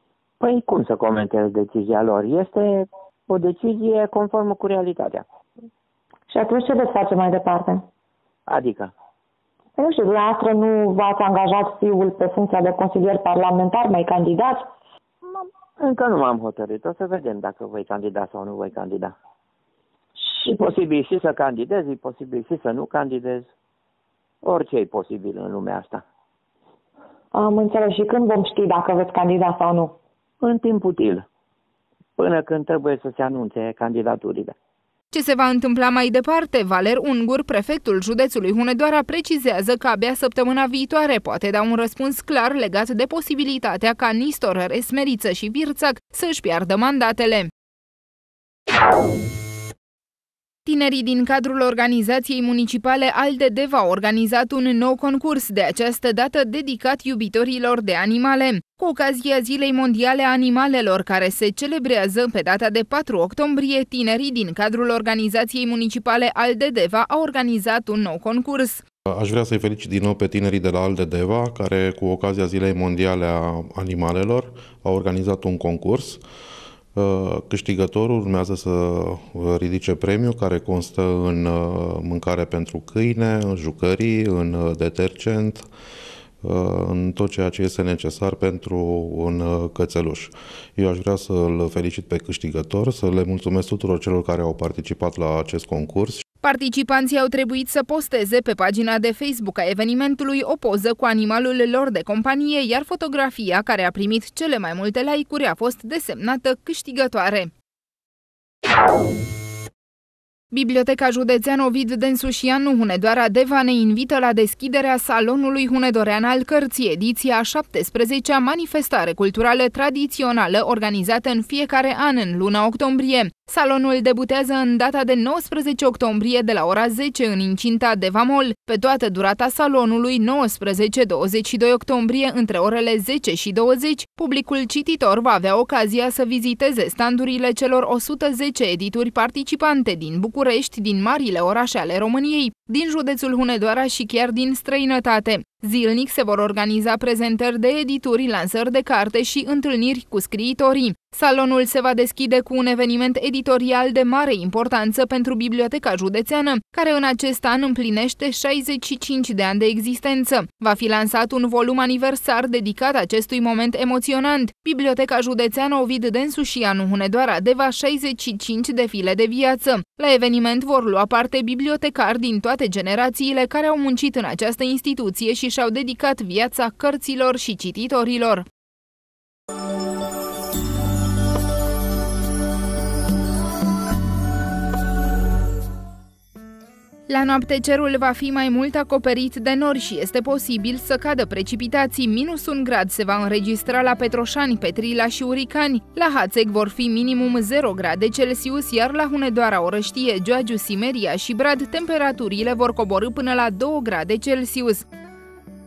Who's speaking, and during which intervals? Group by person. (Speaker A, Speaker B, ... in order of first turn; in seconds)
Speaker A: 0.4-5.2, 8.5-8.9, 15.8-19.1, 20.3-23.5, 24.4-26.0, 30.4-31.2, 32.2-34.5
Speaker B: 6.3-7.8, 9.8-14.7, 27.3-29.9
Speaker C: 35.1-47.5, 50.6-68.8, 96.4-107.5, 110.5-178.5, 187.1-204.8
Speaker D: 69.2-76.2, 77.0-85.5, 86.5-96.2